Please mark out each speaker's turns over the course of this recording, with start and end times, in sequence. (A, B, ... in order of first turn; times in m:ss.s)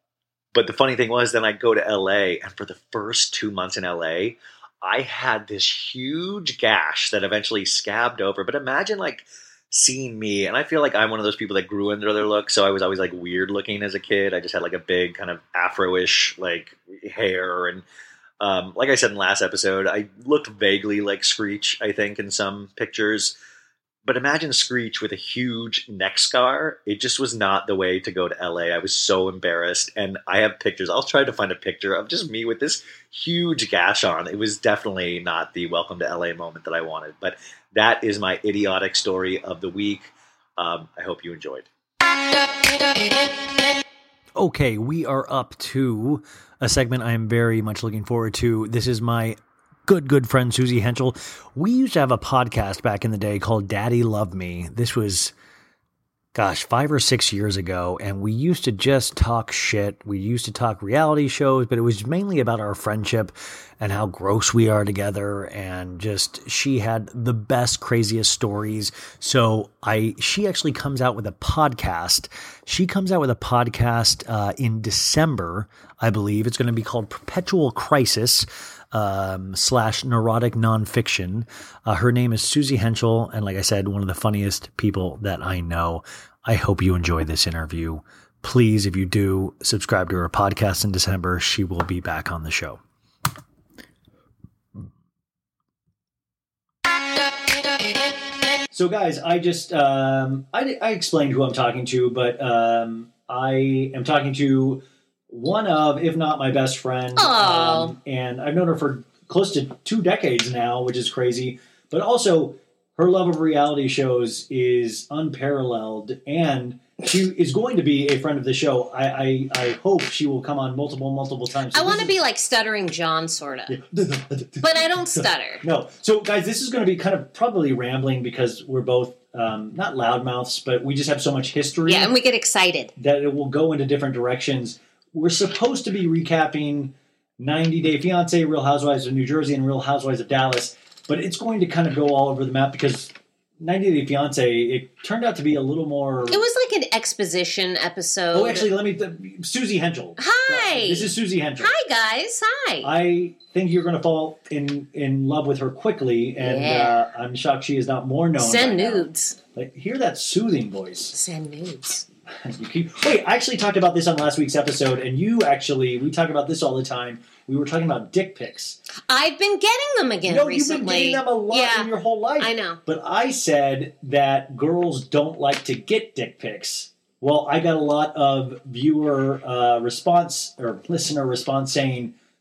0:00.5-0:17.8 A
0:18.4-0:23.3 A
0:24.0-0:41.7 A
0:44.4-0:49.4 B
0:49.9-0:55.3 B
0:56.3-1:32.8 B
1:38.7-2:02.1 B
1:47.2-1:47.9 C
2:01.7-2:03.8 C
2:03.7-2:12.1 B
2:04.6-2:05.6 C
2:11.8-2:12.9 C
2:13.0-2:26.4 B
2:26.3-2:28.7 C
2:28.3-2:31.7 B
2:30.2-2:32.9 C
2:32.8-2:41.2 B
2:36.4-2:37.1 C
2:38.4-2:39.4 C
2:41.1-2:42.0 C
2:42.4-2:48.8 B
2:49.1-2:52.8 C
2:50.2-3:02.1 B